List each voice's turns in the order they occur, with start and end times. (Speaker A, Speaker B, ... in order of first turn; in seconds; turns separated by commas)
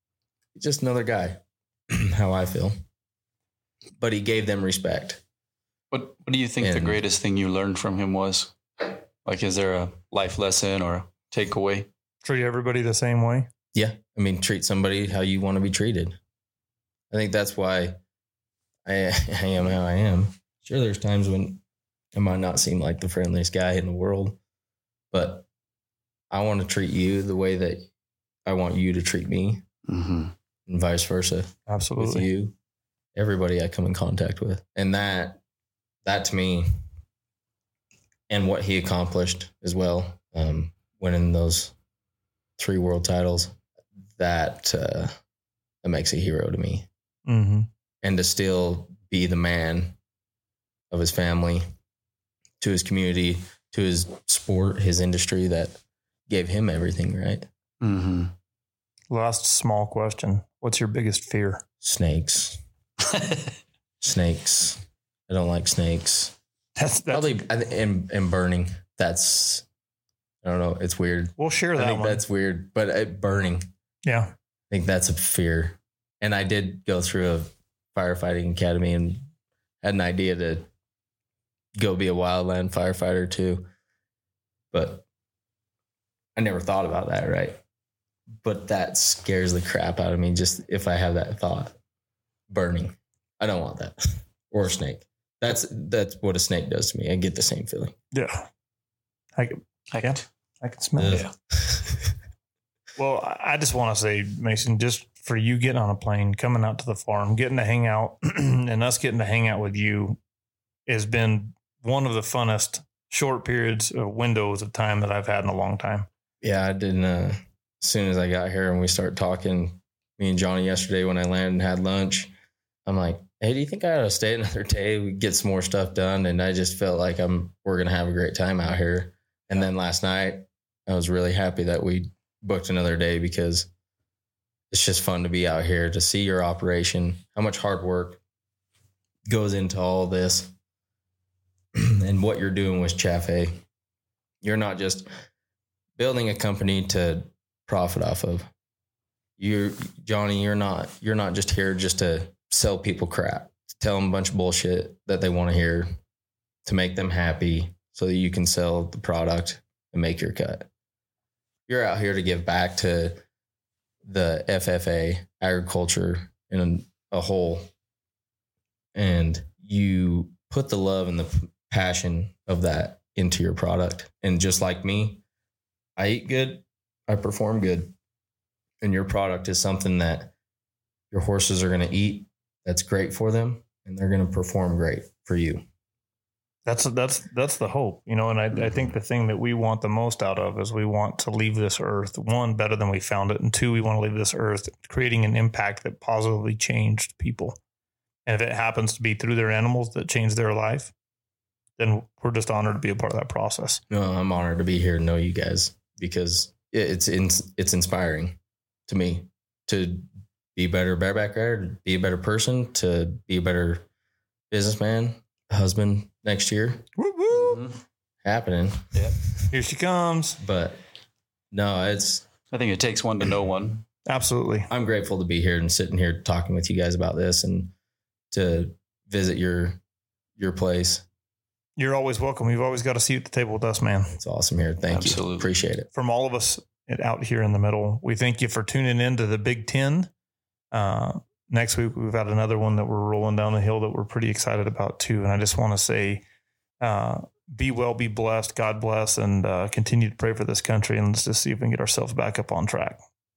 Speaker A: 0.6-2.8, Speaker A: 4.0-5.2, Speaker B: 5.9-11.9, Speaker A: 6.6-7.0, Speaker C: 12.2-13.5, Speaker A: 13.7-16.2, Speaker A: 17.1-18.0, Speaker A: 18.9-21.6, Speaker A: 22.1-24.4, Speaker A: 25.1-25.5, Speaker A: 26.3-27.9, Speaker A: 28.4-29.6, Speaker B: 29.9-30.3, Speaker A: 30.7-32.5, Speaker C: 31.7-32.3, Speaker A: 33.1-35.4, Speaker A: 36.0-36.7, Speaker A: 38.3-41.8, Speaker A: 42.6-43.6, Speaker A: 44.2-45.1, Speaker A: 45.8-46.9, Speaker C: 47.3-47.7, Speaker A: 48.0-50.0, Speaker A: 50.9-51.6, Speaker A: 52.6-57.5, Speaker B: 57.8-58.3, Speaker C: 59.1-61.6, Speaker A: 61.8-62.6, Speaker B: 63.0-63.5, Speaker A: 64.0-66.4, Speaker C: 66.8-67.4, Speaker A: 67.1-69.7, Speaker A: 70.4-73.7, Speaker C: 71.4-72.2, Speaker C: 74.0-74.3, Speaker A: 74.7-79.2, Speaker A: 79.8-80.7, Speaker A: 81.8-83.7, Speaker A: 84.7-85.0, Speaker A: 86.4-87.6, Speaker A: 88.4-91.8, Speaker A: 92.5-98.0, Speaker C: 98.1-98.5, Speaker C: 99.4-101.3, Speaker A: 101.0-102.2, Speaker C: 103.0-110.2, Speaker C: 110.9-116.1, Speaker A: 116.4-122.3, Speaker A: 122.9-133.7, Speaker A: 134.7-138.2, Speaker A: 139.3-140.5, Speaker A: 141.8-143.6, Speaker A: 144.4-145.1, Speaker A: 146.0-148.5, Speaker A: 149.4-155.9, Speaker A: 156.7-160.7, Speaker A: 161.7-163.2, Speaker A: 164.0-167.7, Speaker A: 168.9-175.2, Speaker A: 176.0-177.9, Speaker A: 178.8-180.3, Speaker A: 181.1-185.6, Speaker C: 186.7-197.6, Speaker C: 198.3-200.9, Speaker C: 201.8-203.8, Speaker A: 203.9-213.8, Speaker A: 214.5-216.9, Speaker C: 217.0-217.6, Speaker B: 217.3-217.8, Speaker A: 218.2-219.3, Speaker C: 219.5-220.4, Speaker A: 220.4-220.8, Speaker A: 221.5-222.3, Speaker B: 222.5-223.8, Speaker C: 224.1-224.7, Speaker A: 224.7-227.7, Speaker A: 228.3-229.8, Speaker A: 230.4-231.1, Speaker C: 231.8-234.2, Speaker A: 234.2-235.9, Speaker B: 234.9-235.5, Speaker C: 235.9-240.1, Speaker C: 240.7-246.2, Speaker C: 246.8-253.0